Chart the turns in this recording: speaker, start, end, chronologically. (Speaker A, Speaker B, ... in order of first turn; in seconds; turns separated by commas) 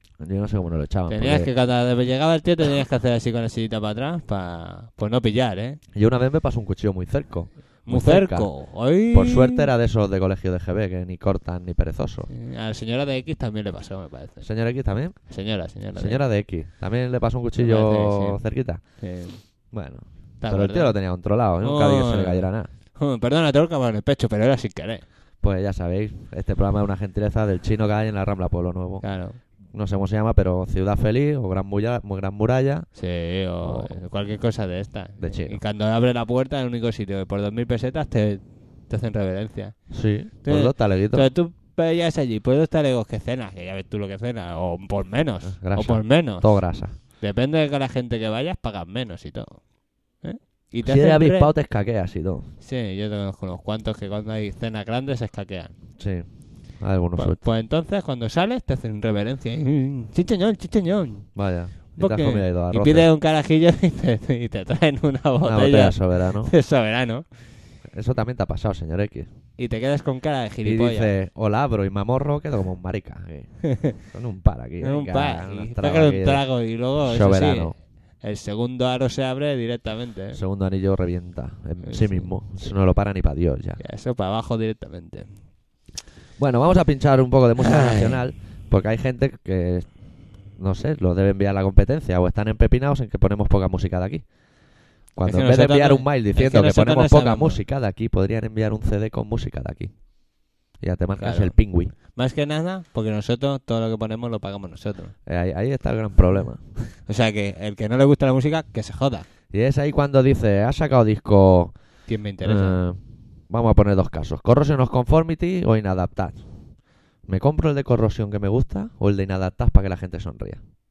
Speaker A: 0.2-1.5, Speaker B: 1.1-5.8, Speaker A: 5.9-12.3, Speaker B: 7.8-9.7, Speaker B: 12.3-14.5, Speaker A: 14.4-22.7, Speaker B: 15.3-16.2, Speaker B: 17.6-18.4, Speaker B: 19.0-19.4, Speaker B: 20.4-21.0, Speaker B: 21.6-25.1, Speaker A: 25.4-32.9, Speaker B: 29.0-29.4, Speaker B: 32.9-51.5, Speaker A: 33.6-34.0, Speaker A: 35.2-35.6, Speaker A: 39.9-41.3, Speaker A: 45.5-47.0, Speaker A: 50.8-52.5, Speaker B: 52.6-55.8, Speaker A: 56.0-57.5, Speaker B: 57.1-61.4, Speaker A: 61.4-63.1, Speaker B: 61.9-67.6, Speaker A: 65.4-66.5, Speaker A: 67.8-69.3, Speaker B: 69.6-71.1, Speaker A: 70.6-77.8, Speaker B: 74.8-80.4, Speaker A: 80.3-83.8, Speaker B: 81.8-82.4, Speaker B: 83.8-85.5, Speaker A: 86.4-94.4, Speaker B: 87.8-88.1, Speaker A: 95.1-101.9, Speaker B: 95.3-97.6, Speaker B: 101.2-105.2, Speaker A: 105.3-106.7, Speaker B: 107.0-109.3, Speaker A: 109.5-120.6, Speaker B: 112.1-112.8